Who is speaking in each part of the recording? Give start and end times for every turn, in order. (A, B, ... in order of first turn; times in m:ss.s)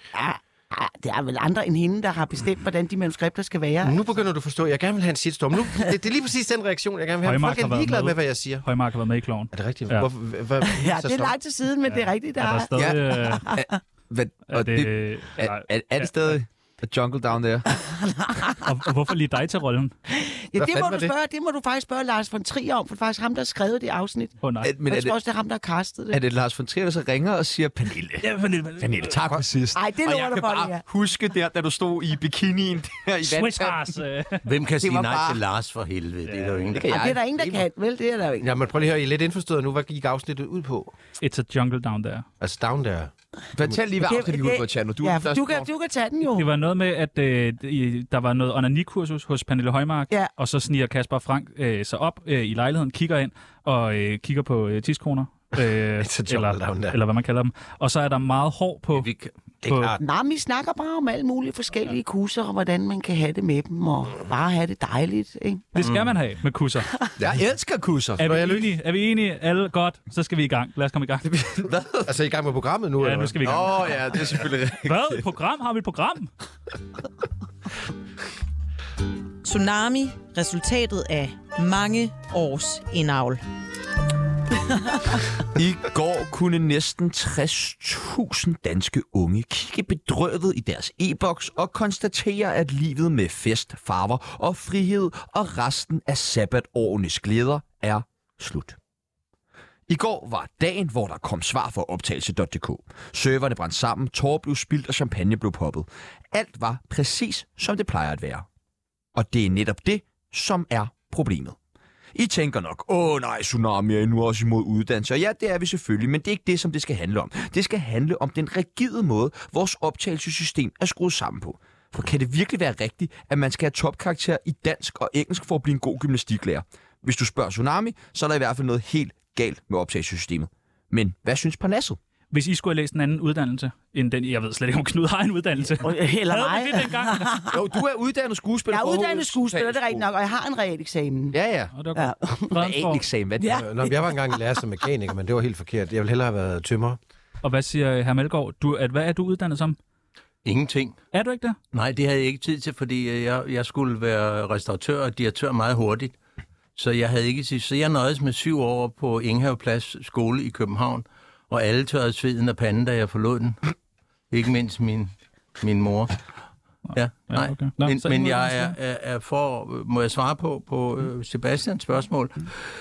0:00.1-0:04.0 A
0:03.8-0:08.7 B
0:07.2-0:10.1 C
0:09.5-0:11.4 B
0:10.7-0:13.7 A
0:11.9-0:13.5 C
0:12.7-0:17.7 D
0:14.5-0:16.4 C
0:17.8-0:18.6 A
0:18.6-0:19.9 C
0:20.1-0:26.2 A
0:20.6-0:21.1 D
0:24.4-0:24.7 C
0:24.6-0:25.2 D
0:26.1-0:28.3 D
0:28.2-0:29.2 C
0:28.8-0:34.0 D
0:29.7-0:30.8 A
0:33.2-0:34.5 C
0:34.5-0:36.9 E
0:34.8-0:35.4 D
0:36.3-0:36.7 C
0:36.7-0:37.6 D
0:36.9-0:38.5 A
0:38.4-0:40.9 B
0:41.2-0:42.3 C
0:42.4-0:43.8 B
0:43.6-0:45.7 D
0:44.0-0:46.5 A
0:46.4-0:59.1 C
0:55.6-0:57.0 B
0:58.9-0:59.3 E
0:59.6-1:00.0 B
0:59.6-1:00.0 C
1:00.0-1:05.7 A
1:05.8-1:06.9 C
1:05.8-1:06.1 E
1:07.2-1:08.3 D
1:08.2-1:11.4 C
1:08.2-1:08.7 B
1:11.3-1:12.1 D
1:12.0-1:13.7 B
1:13.0-1:16.3 C
1:13.4-1:15.2 D
1:19.4-1:23.4 F
1:25.6-1:38.8 D
1:39.9-1:48.5 D
1:49.2-1:51.6 D
1:52.2-2:12.0 D
2:12.3-2:17.3 C
2:15.8-2:17.6 A
2:17.5-2:20.0 D
2:18.7-2:21.4 A
2:21.3-2:21.7 D
2:21.8-2:23.0 C
2:21.9-2:22.6 A
2:22.6-2:23.6 D
2:23.4-2:24.4 A
2:23.5-2:27.0 B
2:27.4-2:29.8 C
2:30.4-2:31.0 E
2:31.1-2:31.6 C
2:31.7-2:36.2 E
2:36.8-2:43.6 E
2:44.3-2:46.2 E
2:46.9-2:48.8 C
2:46.9-2:52.5 E